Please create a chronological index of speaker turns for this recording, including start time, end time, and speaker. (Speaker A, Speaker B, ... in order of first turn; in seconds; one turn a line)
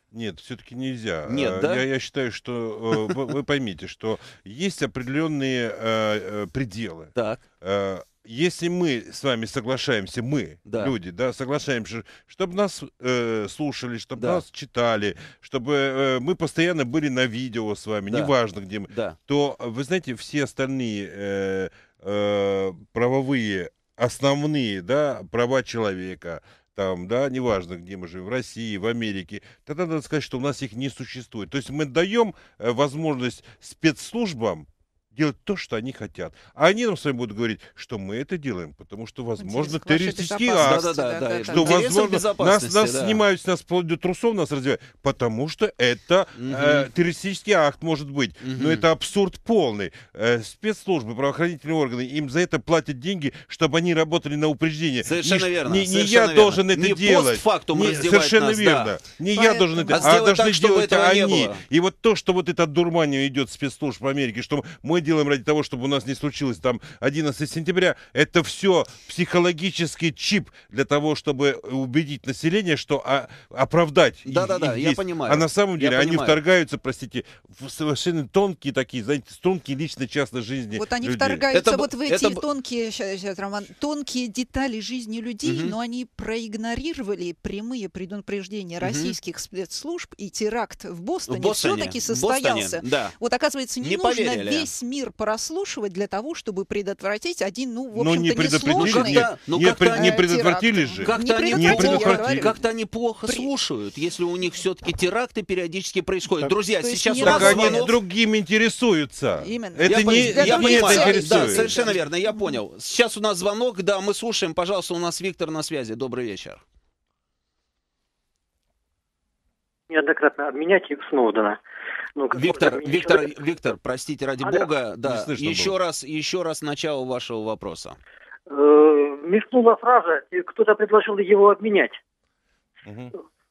Speaker A: 0.1-40.9
Speaker B: 1.3-1.8
Speaker B: 7.1-7.4
Speaker B: 10.7-10.9
Speaker B: 14.2-14.4
Speaker B: 18.9-19.1
Speaker C: 39.4-41.8
Speaker B: 40.6-43.2
Speaker A: 41.5-81.4
Speaker B: 46.4-46.9
Speaker B: 48.4-48.9
Speaker B: 55.0-59.0
Speaker C: 59.3-60.1
Speaker B: 59.9-61.6
Speaker B: 74.2-76.4
Speaker C: 80.7-99.3
Speaker B: 81.5-82.4
Speaker B: 85.4-85.8
Speaker B: 88.8-89.1
Speaker B: 91.3-93.2
Speaker B: 93.8-94.7
Speaker A: 97.9-102.5
Speaker B: 98.7-100.2
Speaker C: 99.9-102.6
Speaker B: 101.0-107.9
Speaker C: 106.6-107.9
Speaker A: 107.2-111.9
Speaker C: 109.4-112.6
Speaker B: 109.8-116.6
Speaker D: 119.9-121.6
Speaker D: 122.2-123.7
Speaker B: 122.3-128.0
Speaker D: 124.4-124.7
Speaker A: 125.1-125.8
Speaker D: 128.5-132.0
Speaker A: 132.8-133.1